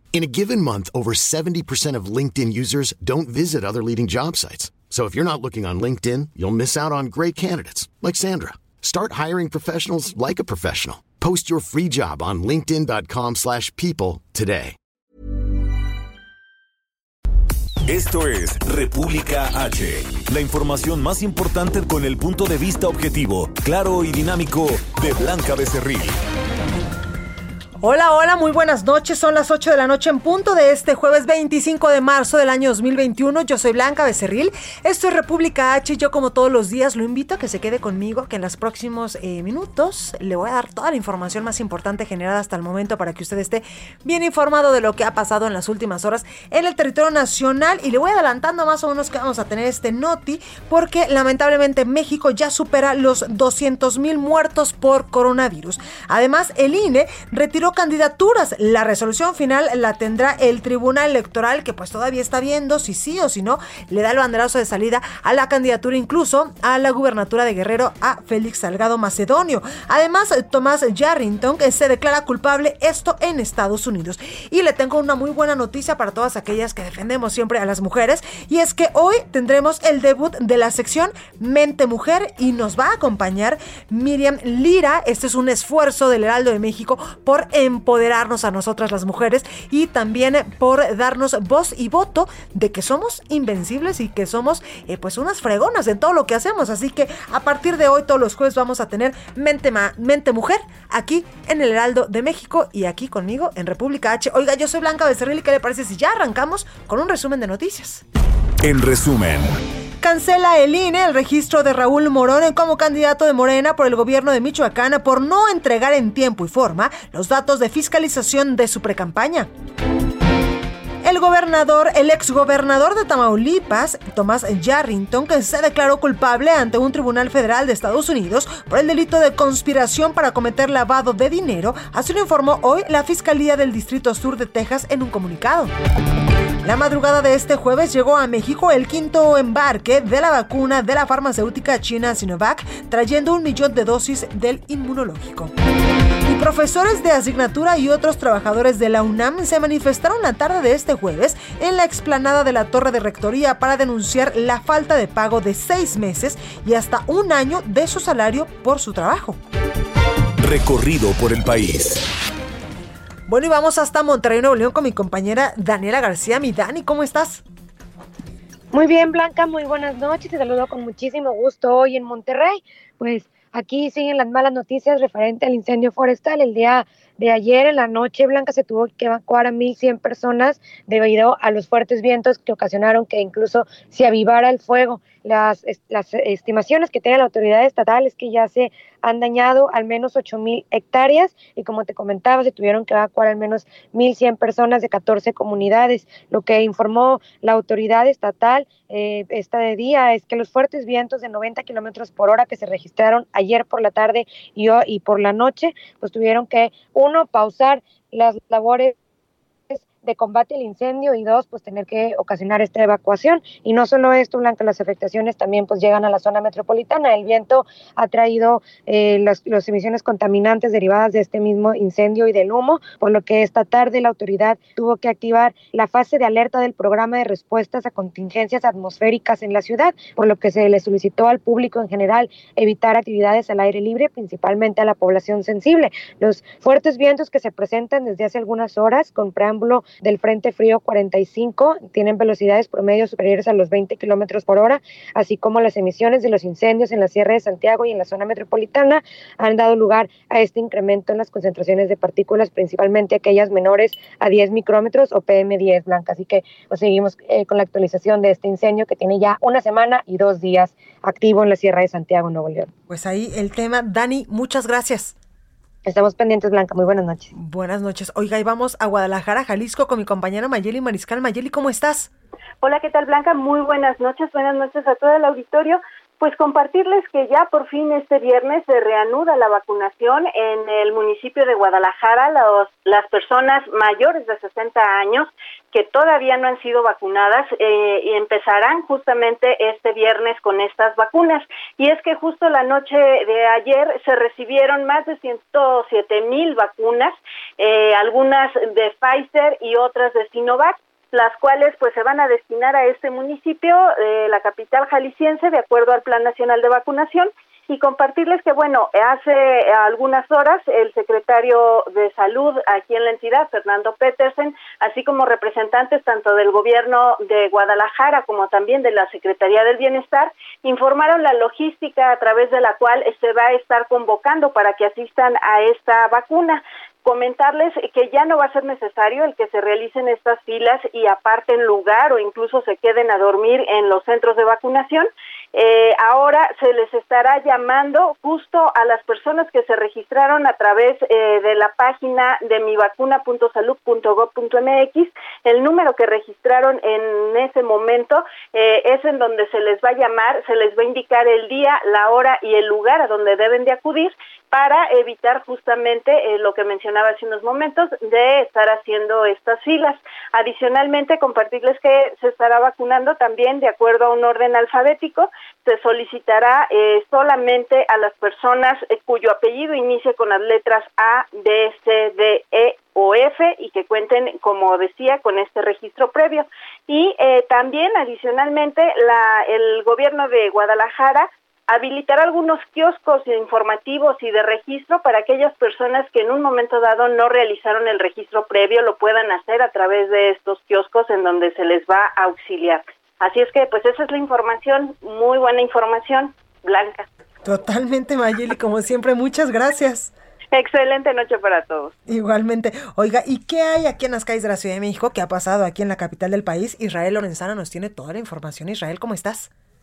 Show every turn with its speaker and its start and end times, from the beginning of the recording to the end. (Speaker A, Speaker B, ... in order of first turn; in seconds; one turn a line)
Speaker A: 0.1-14.8
Speaker B: 17.9-26.2
Speaker C: 27.8-108.0
Speaker B: 108.6-109.5
Speaker C: 110.0-119.5
Speaker C: 121.0-135.7
Speaker C: 136.6-145.5
Speaker C: 146.2-159.4
Speaker B: 160.4-162.0
Speaker C: 163.3-167.4
Speaker D: 168.7-208.9
Speaker D: 209.7-262.7
Speaker C: 262.9-265.1
Speaker D: 265.9-267.3
Speaker C: 267.4-272.1
Speaker E: 272.6-397.1
Speaker C: 397.4-400.1
Speaker E: 400.5-401.9
Speaker C: 402.1-409.5